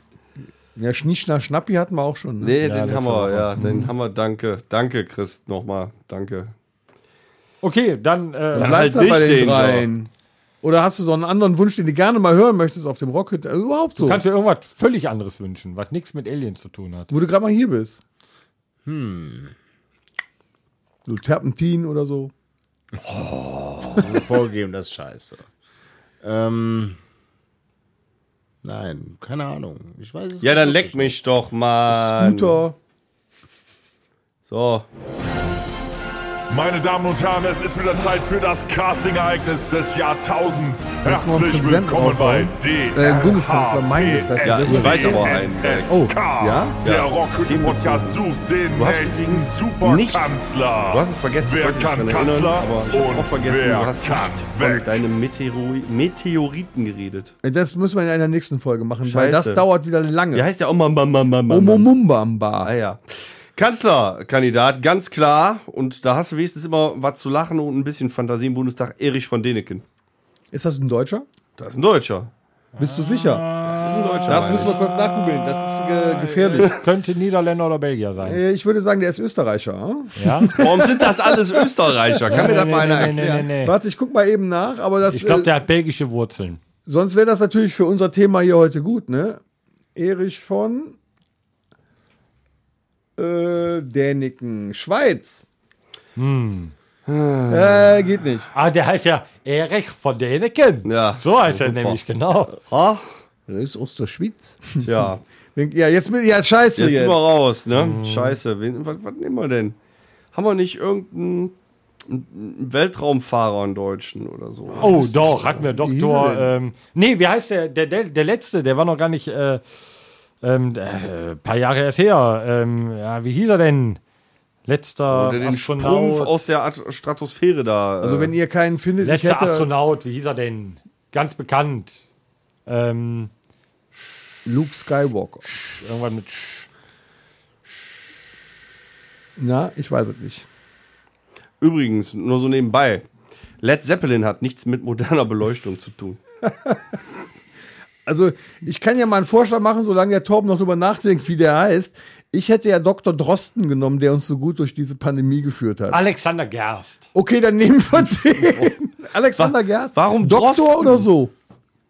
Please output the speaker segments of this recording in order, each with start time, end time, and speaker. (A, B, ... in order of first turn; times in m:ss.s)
0:00.8-0:02.6 A
0:02.4-0:06.5 B
0:02.6-0:03.9 C
0:03.6-0:03.8 A
0:07.6-0:08.9 C
0:08.5-0:10.1 A
0:08.6-0:09.9 B
0:10.6-0:14.2 A
0:14.0-0:17.1 C
0:17.1-0:18.0 A
0:18.8-0:19.5 D
0:21.0-0:22.3 A
0:23.0-0:24.2 C
0:24.0-0:25.4 D
0:26.2-0:27.0 D
0:28.6-0:31.2 D
0:30.4-0:32.6 B
0:31.9-0:32.8 A
0:34.5-0:34.9 B
0:36.5-0:55.0 E
0:41.0-0:46.8 A
0:44.4-0:46.0 B
0:46.8-0:48.2 B
0:48.7-0:50.3 B
0:50.8-0:57.3 B
0:57.4-1:00.4 A
0:59.0-0:59.7 B
1:00.3-1:01.9 B
1:01.5-1:02.7 A
1:02.6-1:09.8 B
1:10.5-1:11.3 A
1:11.6-1:12.3 B
1:12.8-1:18.4 C
1:12.8-1:13.4 A
1:13.6-1:14.7 B
1:14.3-1:16.8 A
1:18.2-1:21.6 A
1:20.2-1:20.6 C
1:20.6-1:23.3 B
1:22.3-1:25.5 A
1:22.3-1:23.7 C
1:25.1-1:26.6 C
1:26.9-1:29.4 A
1:30.0-1:31.0 A
1:33.2-1:35.4 A
1:36.2-1:36.7 C
1:37.0-1:38.0 B
1:37.5-1:38.5 A
1:38.5-1:42.6 C
1:40.8-1:42.0 B
1:42.5-1:43.1 B
1:43.5-1:44.9 A
1:44.8-1:45.2 B
1:45.6-1:47.4 A
1:46.7-1:49.8 B
1:47.7-1:48.4 C
1:50.3-1:51.6 B
1:52.1-1:55.5 B
1:54.7-1:56.5 A
1:54.8-1:59.6 C
2:00.4-2:04.0 C
2:04.7-2:06.3 C
2:05.1-2:08.4 B
2:08.0-2:09.7 A
2:09.0-2:12.1 C
2:12.7-2:13.3 C
2:14.4-2:15.4 A
2:15.4-2:16.7 C
2:19.4-2:20.5 A
2:21.6-2:23.0 B
2:23.6-2:26.2 B
2:26.4-2:26.8 A
2:28.0-2:36.0 A
2:35.9-2:37.1 C
2:37.1-2:41.3 A
2:38.4-2:38.7 B
2:39.4-2:41.1 B